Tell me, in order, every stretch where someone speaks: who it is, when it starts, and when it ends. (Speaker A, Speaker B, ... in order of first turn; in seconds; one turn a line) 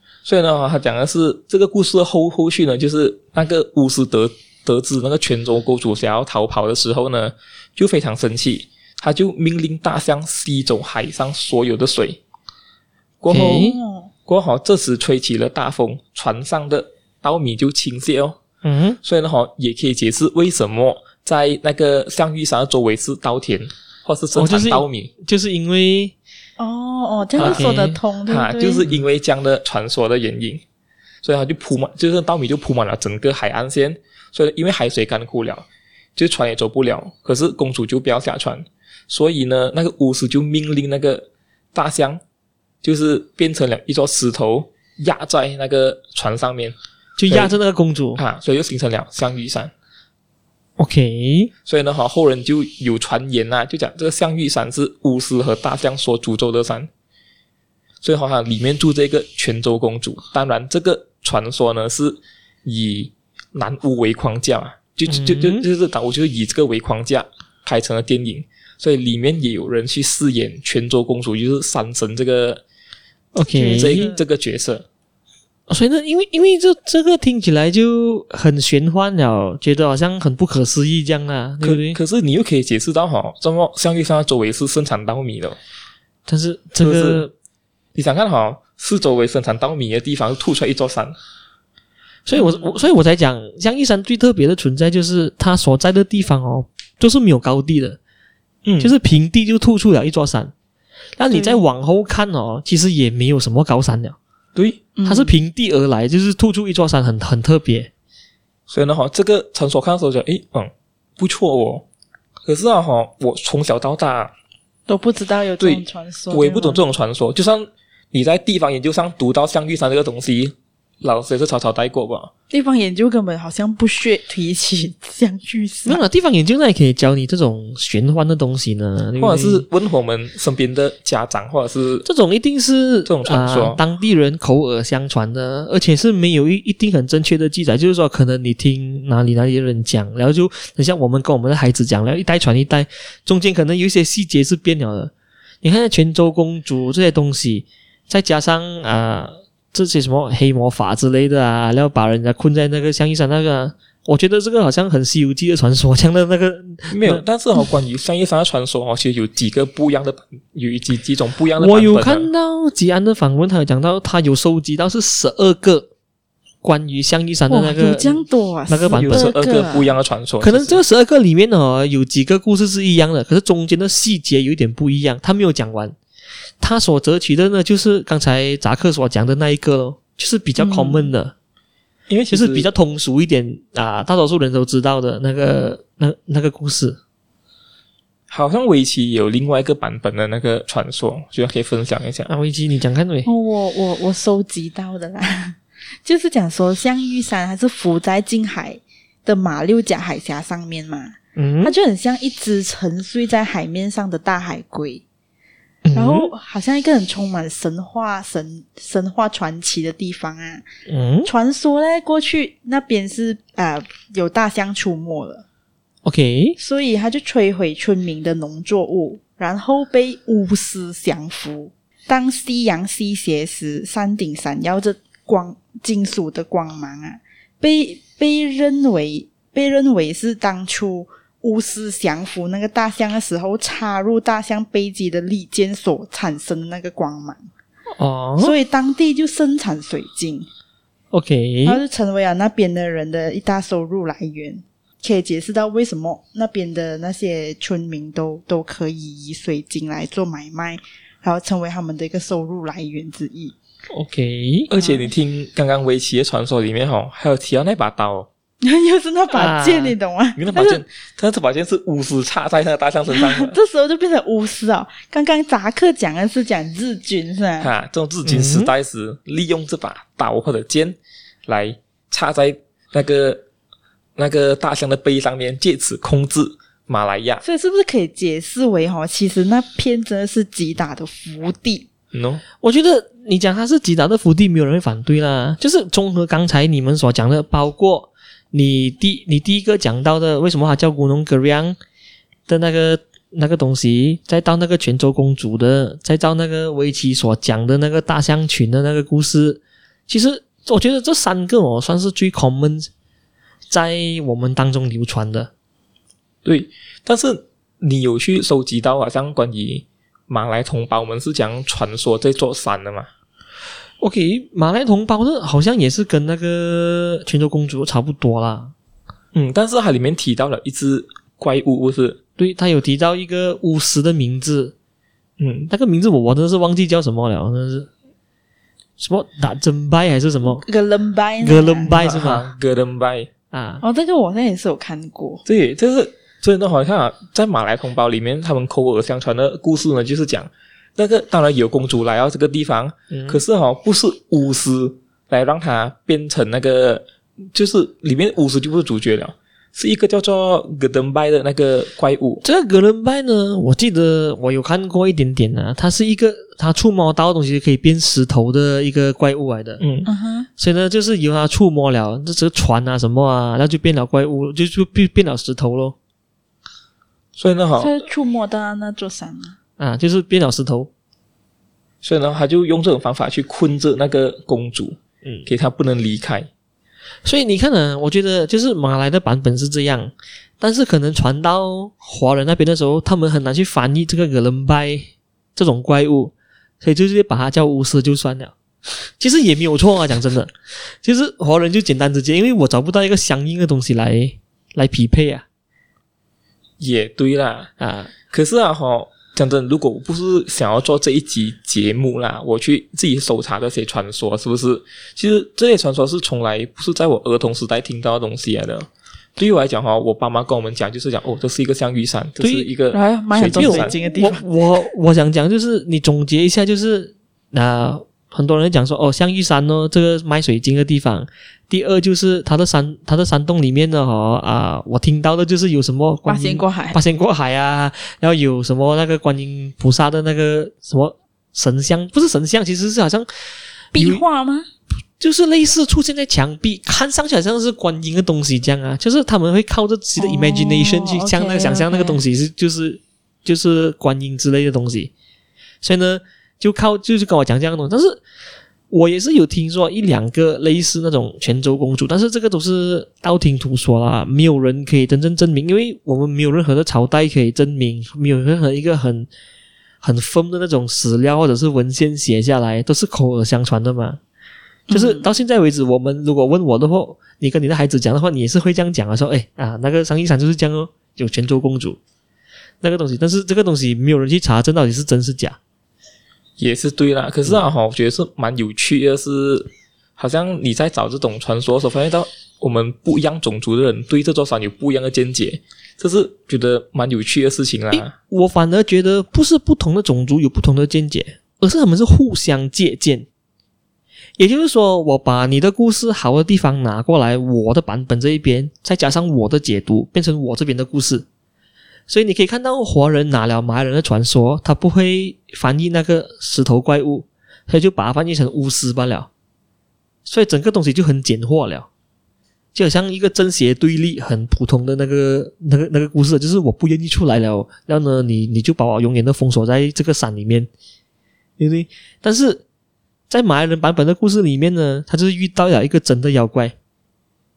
Speaker A: 0.2-12.2
Speaker A: 13.2-13.7
Speaker B: 13.3-13.8
Speaker C: 13.4-14.1
Speaker A: 14.3-18.4
Speaker B: 18.6-19.0
Speaker A: 19.0-25.1
Speaker B: 24.4-26.1
Speaker C: 26.6-28.9
Speaker A: 27.4-27.8
Speaker B: 27.4-28.0
Speaker A: 28.3-30.6
Speaker A: 31.2-42.2
Speaker A: 42.8-46.8
Speaker B: 47.2-48.2
Speaker A: 47.3-47.6
Speaker A: 48.2-49.7
Speaker B: 50.8-51.5
Speaker A: 51.7-56.9
Speaker A: 58.0-72.6
Speaker B: 65.1-65.6
Speaker B: 73.3-74.1
Speaker C: 73.5-74.2
Speaker A: 73.8-74.9
Speaker B: 75.7-82.0
Speaker A: 81.6-85.6
Speaker B: 86.3-87.3
Speaker A: 86.8-87.3
Speaker A: 88.0-91.2
Speaker B: 92.3-98.0
Speaker C: 92.4-92.7
Speaker A: 98.7-98.9
Speaker B: 98.8-100.5
Speaker B: 101.2-104.2
Speaker C: 101.3-101.6
Speaker A: 104.5-104.9
Speaker C: 105.0-105.4
Speaker B: 105.0-107.9
Speaker A: 108.7-111.8
Speaker A: 112.5-114.3
Speaker C: 114.9-116.8
Speaker A: 115.6-122.3
Speaker C: 122.5-126.0
Speaker B: 125.8-129.7
Speaker A: 129.2-132.1
Speaker B: 132.1-157.2
Speaker A: 133.1-133.8
Speaker A: 156.9-162.3
Speaker B: 161.6-165.9
Speaker B: 166.6-169.3
Speaker C: 167.5-169.9
Speaker A: 168.9-170.8
Speaker B: 170.4-176.0
Speaker B: 176.6-181.3
Speaker C: 180.6-181.1
Speaker A: 182.1-182.7
Speaker B: 182.3-187.0
Speaker A: 188.3-192.3
Speaker B: 192.3-193.3
Speaker C: 193.2-205.0
Speaker B: 201.4-201.7
Speaker B: 205.8-206.3
Speaker C: 205.9-210.6
Speaker B: 210.9-211.3
Speaker C: 211.2-215.4
Speaker B: 216.1-216.6
Speaker C: 216.6-237.4
Speaker B: 238.0-238.5
Speaker C: 238.4-240.5
Speaker B: 241.1-241.8
Speaker C: 241.7-253.6
Speaker B: 253.9-254.7
Speaker A: 254.7-258.3
Speaker C: 254.8-255.1
Speaker C: 258.6-260.8
Speaker B: 259.3-259.9
Speaker A: 260.4-263.6
Speaker C: 263.1-267.7
Speaker A: 267.6-273.4
Speaker B: 268.2-268.7
Speaker A: 274.2-277.4
Speaker C: 277.4-281.9
Speaker A: 282.1-282.4
Speaker B: 282.6-291.8
Speaker B: 292.5-302.9
Speaker B: 303.7-305.5
Speaker A: 306.4-313.1
Speaker B: 314.0-318.7
Speaker A: 319.3-322.2
Speaker B: 322.4-324.7
Speaker A: 325.4-325.7
Speaker B: 325.7-327.9
Speaker B: 329.0-330.6
Speaker C: 330.5-331.9
Speaker B: 331.4-332.5
Speaker A: 331.9-333.3
Speaker B: 333.5-333.8
Speaker C: 333.8-335.4
Speaker A: 335.5-352.4
Speaker B: 343.1-343.4
Speaker B: 352.4-359.8
Speaker A: 359.8-360.1
Speaker C: 360.1-360.5
Speaker B: 360.6-366.0
Speaker A: 367.4-367.9
Speaker C: 367.8-369.6
Speaker B: 369.8-370.9
Speaker A: 372.0-376.5
Speaker B: 377.2-388.5
Speaker B: 389.2-395.4
Speaker A: 396.8-397.7
Speaker B: 397.8-398.1
Speaker A: 398.3-413.9
Speaker B: 412.4-412.7
Speaker C: 412.9-414.4
Speaker B: 413.5-433.3
Speaker C: 426.3-427.0
Speaker B: 433.9-434.2
Speaker C: 433.9-434.7
Speaker B: 435.2-445.1
Speaker C: 440.2-442.2
Speaker B: 445.8-448.2
Speaker B: 448.9-459.3
Speaker B: 460.0-464.2
Speaker C: 464.9-465.3
Speaker B: 464.9-472.0
Speaker B: 472.8-475.6
Speaker A: 476.6-488.1
Speaker B: 487.9-493.3
Speaker B: 494.4-501.3
Speaker B: 502.1-509.3
Speaker B: 510.2-511.9
Speaker B: 512.7-520.7
Speaker B: 521.6-522.6
Speaker B: 523.3-526.8